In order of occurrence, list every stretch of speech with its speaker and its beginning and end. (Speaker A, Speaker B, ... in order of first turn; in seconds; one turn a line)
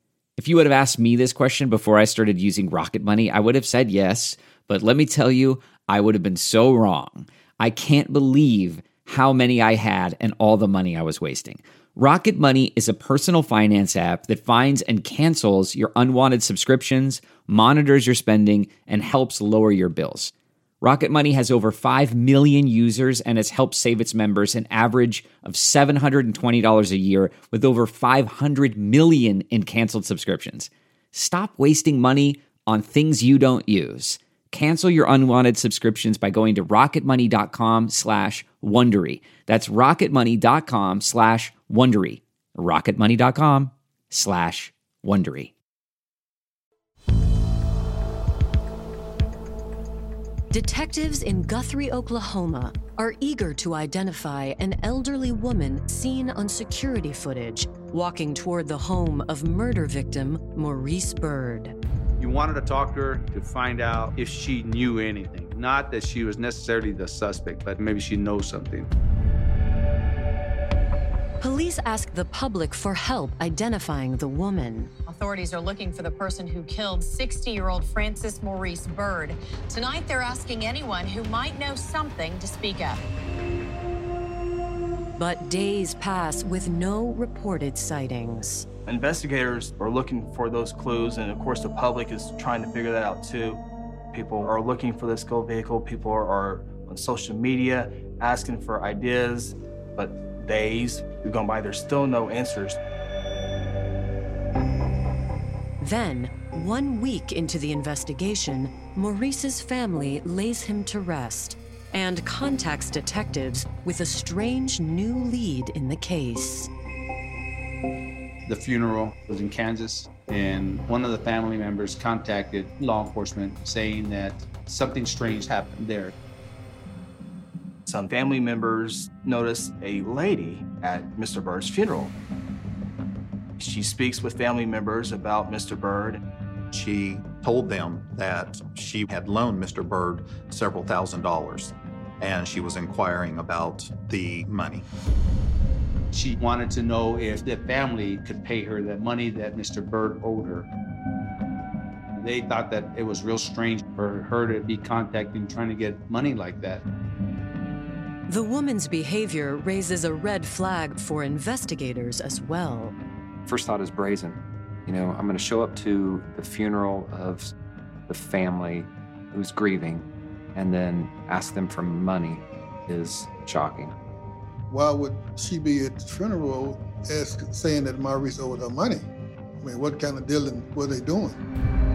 Speaker A: 0.4-45.5
Speaker B: 50.5-61.7
Speaker C: 62.2-68.9
Speaker B: 71.4-74.9
Speaker D: 75.0-83.0
Speaker B: 85.2-88.7
Speaker E: 88.9-102.8
Speaker B: 105.8-116.7
Speaker C: 118.5-126.1
Speaker E: 127.8-132.2
Speaker E: 133.6-136.2
Speaker F: 136.7-144.9
Speaker C: 146.1-150.7
Speaker C: 152.1-156.8
Speaker B: 158.3-163.0
Speaker G: 163.5-167.5
Speaker G: 168.1-173.9
Speaker H: 174.7-179.1
Speaker H: 179.6-181.4